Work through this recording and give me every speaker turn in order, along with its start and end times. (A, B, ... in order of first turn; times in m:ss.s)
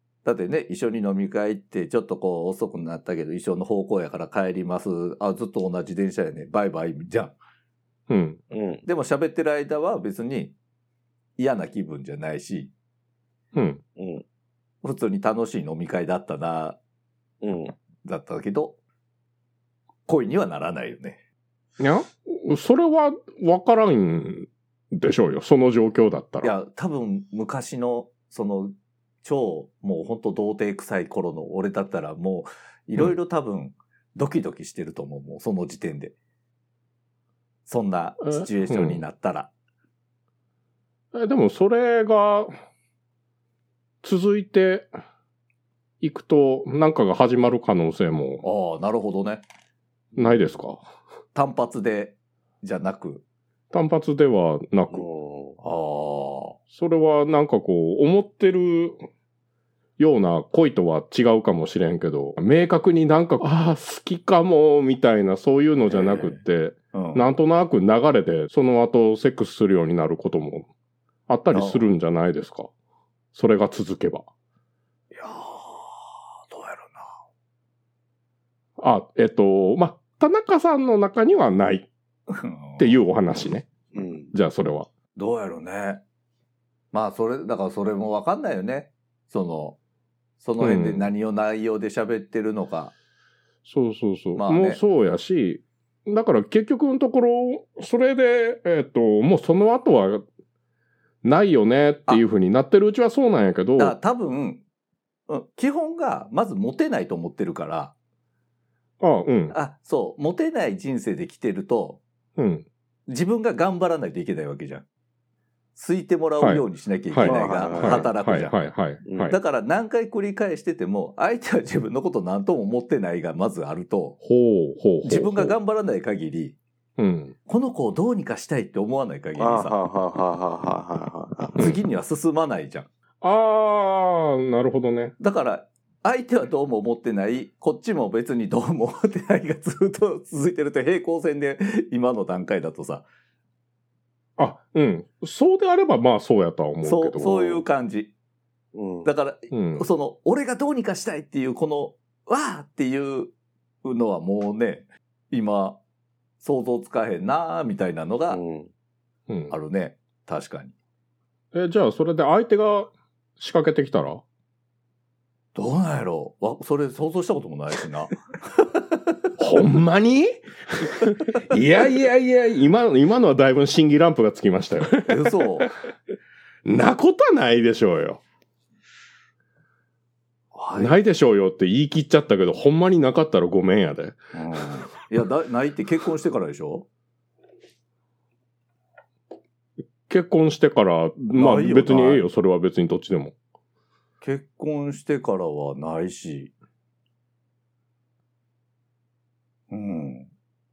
0:00.2-0:07.4 A
0:08.1-0:08.4 B
0:08.5-0:08.8 C
0:08.8-0:10.5 A
0:11.4-0:12.7 A
0:13.5-0:13.8 B
0:14.0-0:14.2 C
0:14.8-0:16.8 A
0:17.4-0:17.7 C
0:18.0-0:18.8 A
0:20.1-0:21.2 A
0:21.8-0:26.5 B
0:26.4-0:36.1 A
0:37.7-0:39.5 A
0:38.2-0:39.0 B
0:41.1-0:42.5 B
0:44.0-0:44.9 B
0:46.0-0:48.4 B
0:48.4-0:49.4 A
0:50.2-0:50.8 B
0:51.3-0:53.2 A
0:53.7-0:55.0 B
0:54.9-0:55.6 C
0:55.6-0:56.6 A
0:56.7-0:59.0 B
1:00.0-1:10.7 B
1:05.9-1:06.4 A
1:06.9-1:07.2 A
1:11.3-1:12.7 B
1:11.5-1:11.8 A
1:13.3-1:14.3 B
1:15.1-1:17.1 A
1:18.8-1:21.9 B
1:22.3-1:23.0 A
1:22.8-1:23.7 B
1:23.9-1:24.3 C
1:24.3-1:24.9 B
1:25.2-1:26.0 A
1:26.9-1:29.8 A
1:30.4-1:32.9 A
1:30.6-1:31.1 B
1:33.6-1:40.2 B
1:34.4-1:34.8 A
1:41.2-1:44.0 B
1:43.8-1:44.6 A
1:45.3-1:47.9 A
1:49.0-1:49.6 B
1:49.5-1:52.0 A
1:52.4-1:52.6 B
1:53.1-1:54.8 A
1:55.8-1:58.5 A
1:56.4-1:59.4 B
1:57.2-1:58.1 C
1:59.0-1:59.3 C
1:59.2-2:04.2 A
2:04.2-2:05.5 B
2:05.0-2:06.6 A
2:07.0-2:07.3 B
2:07.5-2:09.8 A
2:09.4-2:11.7 C
2:11.6-2:12.9 A
2:13.2-2:15.1 B
2:15.2-2:23.0 A
2:24.4-2:27.6 B
2:26.8-2:28.1 A
2:28.7-2:29.1 C
2:29.0-2:33.3 A
2:29.5-2:29.8 B
2:33.8-2:35.8 A
2:36.4-2:38.4 A
2:38.3-2:38.7 C
2:39.3-2:39.5 B
2:39.5-2:40.7 A
2:41.5-2:44.2 B
2:45.5-2:49.2 A
2:49.4-2:55.7 B
2:55.1-2:55.7 A
2:56.6-2:58.2 B
3:00.5-3:01.0 A
3:00.8-3:04.2 B
3:04.3-3:06.9 A
3:10.1-3:13.3 B
3:11.3-3:12.2 A
3:14.2-3:16.5 A
3:19.7-3:20.3 A